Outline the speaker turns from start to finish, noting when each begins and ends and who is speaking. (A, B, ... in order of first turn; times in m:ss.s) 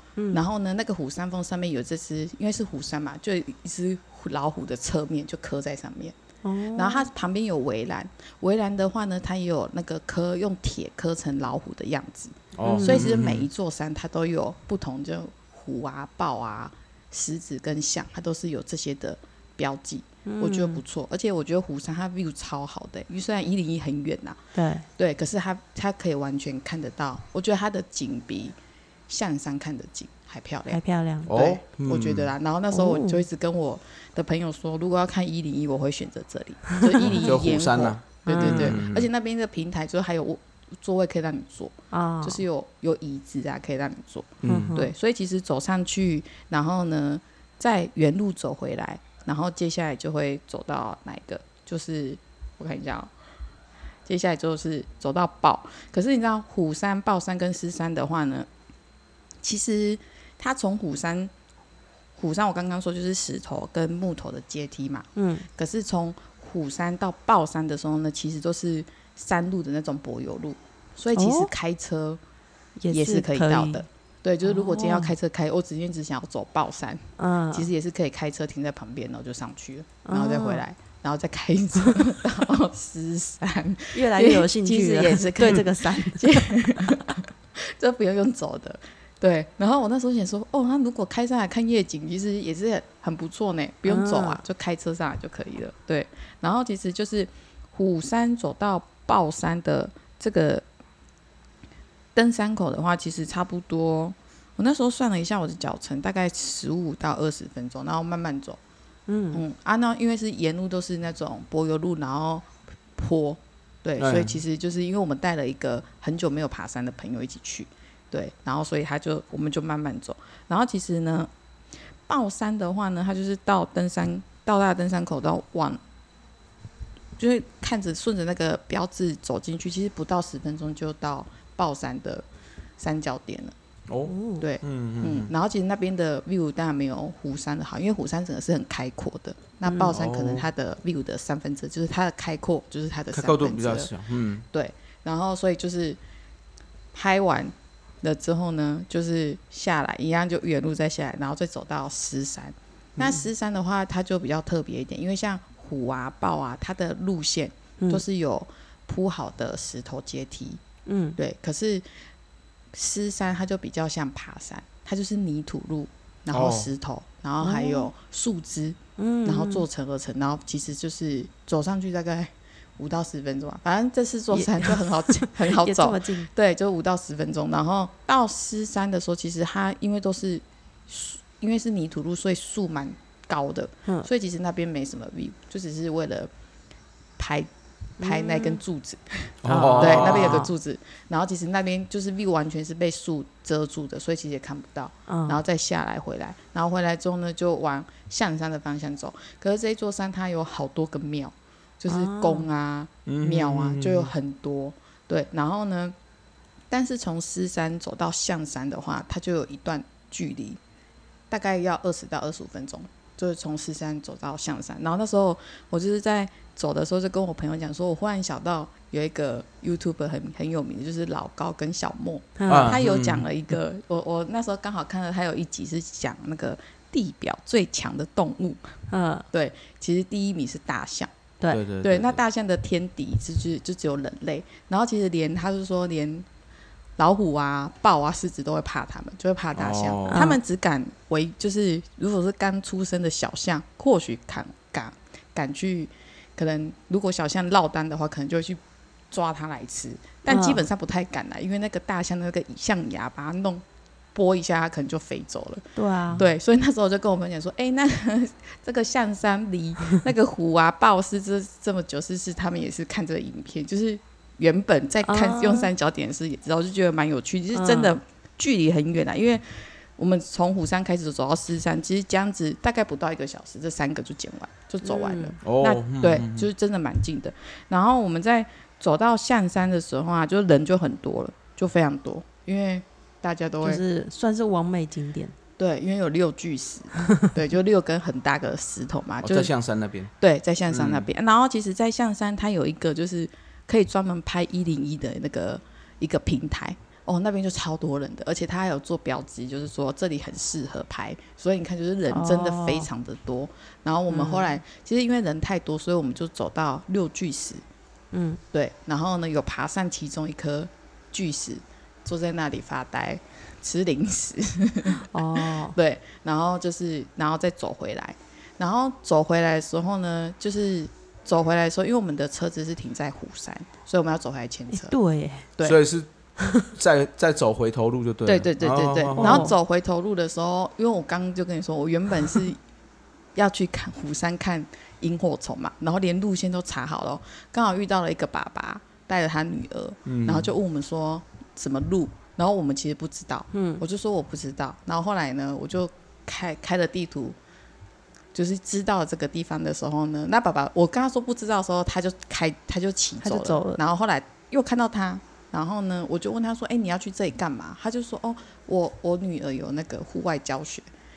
0:00.2-0:00.4 A
0:00.3-0:06.1 B
0:06.4-0:07.1 A
0:06.8-0:24.4 B
0:12.5-0:13.4 C
0:12.6-0:13.0 A
0:20.2-0:20.8 A
0:24.6-0:24.8 A
0:25.0-0:28.6 B
0:29.1-0:53.1 B
0:30.7-0:31.3 A
0:31.2-0:32.3 C
0:32.7-0:33.2 A
0:36.9-0:37.4 A
0:37.1-0:39.1 C
0:38.2-0:38.8 A
0:41.9-0:42.4 A
0:44.4-0:44.8 C
0:44.4-0:44.9 A
0:54.1-0:58.5 B
0:59.4-1:01.3 B
1:02.2-1:12.2 B
1:05.2-1:05.4 A
1:11.1-1:11.5 A
1:12.8-1:13.8 A
1:12.9-1:40.6 B
1:14.4-1:15.1 A
1:17.2-1:17.7 A
1:20.0-1:20.6 A
1:23.9-1:26.9 A
1:33.9-1:34.4 A
1:42.1-1:48.6 B
1:49.1-1:49.4 A
1:49.3-2:01.3 B
1:54.0-1:54.4 C
2:02.1-2:05.8 B
2:07.2-2:12.2 B
2:12.8-2:13.5 B
2:13.9-2:15.3 C
2:14.1-2:14.4 A
2:14.4-2:23.9 B
2:19.9-2:20.4 C
2:23.1-2:24.5 C
2:24.5-2:26.0 B
2:26.9-2:40.6 B
2:40.9-2:41.2 A
2:41.2-2:41.8 B
2:42.7-3:06.3 B
2:46.3-2:46.7 C
2:47.4-2:47.9 A
2:49.0-2:49.6 A
2:54.3-2:56.3 A
3:07.2-3:26.0 B
3:08.0-3:08.6 A
3:09.4-3:10.4 C
3:09.5-3:10.5 A
3:15.1-3:15.4 A
3:21.9-3:22.5 A
3:23.0-3:24.1 C
3:26.7-3:30.6 B
3:31.3-3:48.7 B
3:42.4-3:42.8 A
3:42.5-3:43.2 C
3:48.9-3:49.2 A
3:49.3-3:51.1 B
3:51.5-3:52.2 C
3:51.8-3:56.2 B
3:57.0-4:08.6 B
3:59.5-4:00.2 C
4:00.1-4:00.4 A
4:09.1-4:13.6 B
4:10.3-4:10.6 A
4:14.1-4:43.8 B
4:15.8-4:16.2 A
4:25.1-4:25.7 A
4:27.5-4:28.0 A
4:34.8-4:35.4 A
4:35.4-4:36.5 C
4:43.6-4:45.4 A
4:45.6-4:49.5 B
4:49.2-4:50.1 C
4:50.2-5:07.6 B
4:50.7-4:51.1 C
5:02.1-5:02.9 A
5:04.1-5:04.5 A
5:08.1-5:08.4 A
5:08.5-5:25.0 B
5:15.0-5:15.8 A
5:24.7-5:25.5 A
5:25.6-5:26.1 C
5:26.4-5:26.7 A
5:26.8-5:29.4 C
5:28.2-5:32.6 B
5:29.2-5:29.5 A
5:33.4-5:47.4 B
5:40.0-5:40.5 C
5:43.5-5:43.8 A
5:48.3-6:00.9 B
5:53.2-5:53.8 A